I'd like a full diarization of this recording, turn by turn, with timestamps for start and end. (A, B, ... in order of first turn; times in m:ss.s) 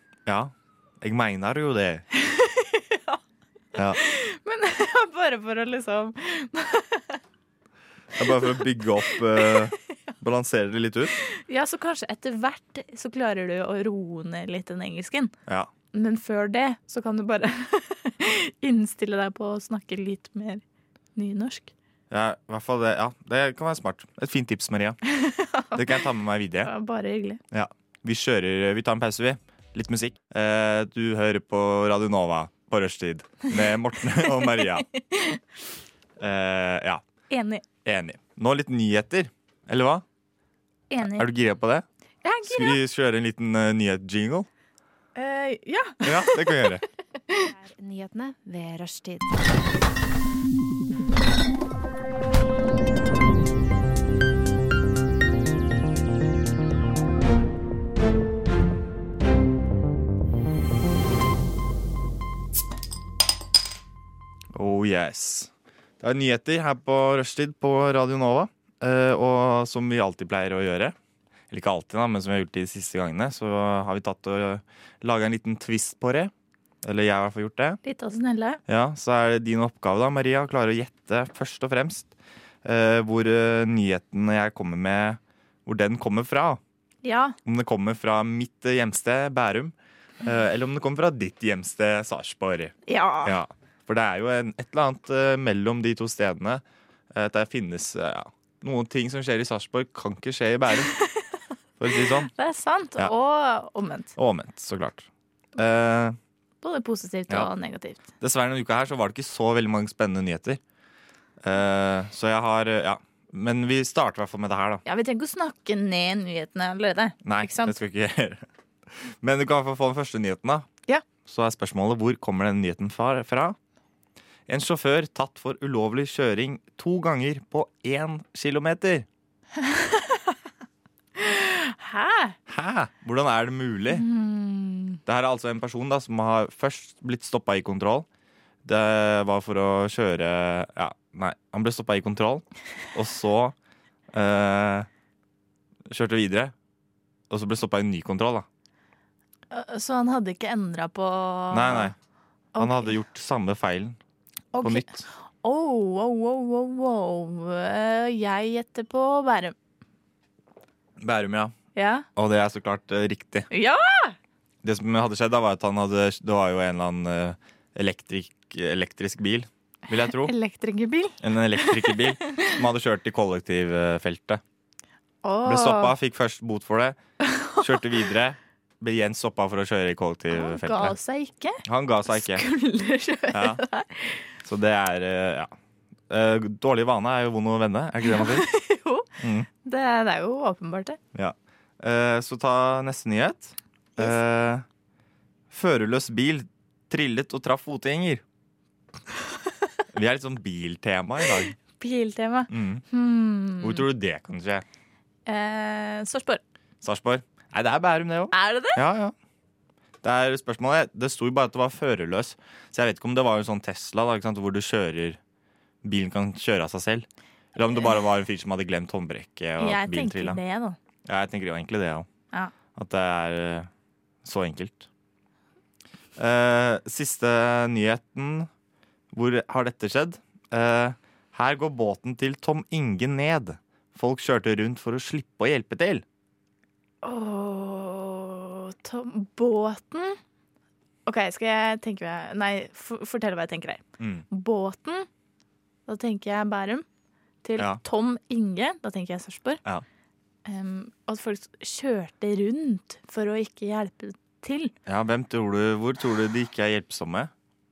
0:00.2-0:02.0 A
0:02.2-0:03.2 B
0:03.8-0:04.0 A
0:03.9-0:07.2 B
0:08.1-0:11.1 A
0:08.2-0:09.6 B
0:11.2-0:15.3 B
0:15.9-0:20.6 B
0:21.2-0:21.7 B
0:22.1-0:25.0 A
0:25.1-0:26.0 B
0:25.7-0:26.7 A
0:26.6-0:27.4 B
0:27.5-0:34.9 A
0:34.2-0:35.4 B
0:36.2-0:37.0 A
0:37.3-0:37.6 B
0:37.8-0:40.0 A
0:40.9-0:41.3 B
0:41.0-0:41.9 A
0:42.2-0:42.8 B
0:42.4-0:44.5 A
0:45.1-0:46.8 B
0:46.0-0:46.8 A
0:47.4-0:49.5 C
1:04.5-1:10.9 A
1:11.5-1:16.3 A
1:16.8-1:17.8 A
1:17.8-1:18.6 B
1:18.7-1:22.1 A
1:22.6-1:26.6 A
1:27.0-1:27.4 B
1:27.4-1:40.9 A
1:32.9-1:33.4 B
1:40.9-1:41.3 B
1:41.8-1:42.3 A
1:41.9-1:44.1 B
1:44.2-1:46.2 A
1:46.6-1:48.0 B
1:48.2-1:50.6 A
1:51.4-1:54.8 A
1:54.9-1:57.8 B
1:57.2-2:00.7 A
2:01.2-2:03.6 A
2:04.5-2:09.1 A
2:09.6-2:10.3 B
2:11.2-2:12.4 B
2:12.5-2:14.0 A
2:13.9-2:15.0 B
2:15.0-2:18.0 A
2:18.6-2:23.5 A
2:24.1-2:24.9 A
2:25.9-2:26.5 A
2:27.3-2:28.4 A
2:29.5-2:31.9 B
2:31.5-2:31.9 A
2:32.5-2:32.9 B
2:32.6-2:34.0 A
2:34.5-2:39.5 B
2:34.6-2:35.0 A
2:41.0-2:41.5 A
2:41.8-2:42.0 B
2:42.2-2:43.5 A
2:43.5-2:44.2 B
2:44.6-2:50.3 A
2:49.9-2:52.6 B
2:51.2-2:54.4 A
2:55.2-2:55.9 B
2:55.4-2:57.0 A
2:57.2-2:57.6 B
2:57.6-3:00.9 A
3:00.3-3:04.2 B
3:01.6-3:02.4 A
3:03.3-3:03.6 A
3:04.4-3:05.5 A
3:06.1-3:08.5 A
3:08.0-3:09.1 B
3:09.2-3:09.5 A
3:09.6-3:11.0 B
3:11.1-3:14.6 A
3:15.5-3:18.2 A
3:19.9-3:21.5 A
3:21.6-3:23.9 B
3:22.5-3:22.8 A
3:23.6-3:24.6 A
3:25.2-3:26.4 B
3:26.8-3:29.1 A
3:28.3-3:28.8 B
3:30.0-3:35.2 A
3:35.8-3:40.4 A
3:39.6-3:40.8 B
3:41.0-3:42.1 A
3:42.7-3:43.7 A
3:44.2-3:44.9 A
3:46.2-3:48.5 A
3:49.1-3:56.0 A
3:57.0-4:00.2 B
4:01.1-4:05.1 B
4:04.0-4:04.2 A
4:05.9-4:06.8 B
4:07.4-4:09.6 B
4:10.4-4:14.7 B
4:14.9-4:17.3 A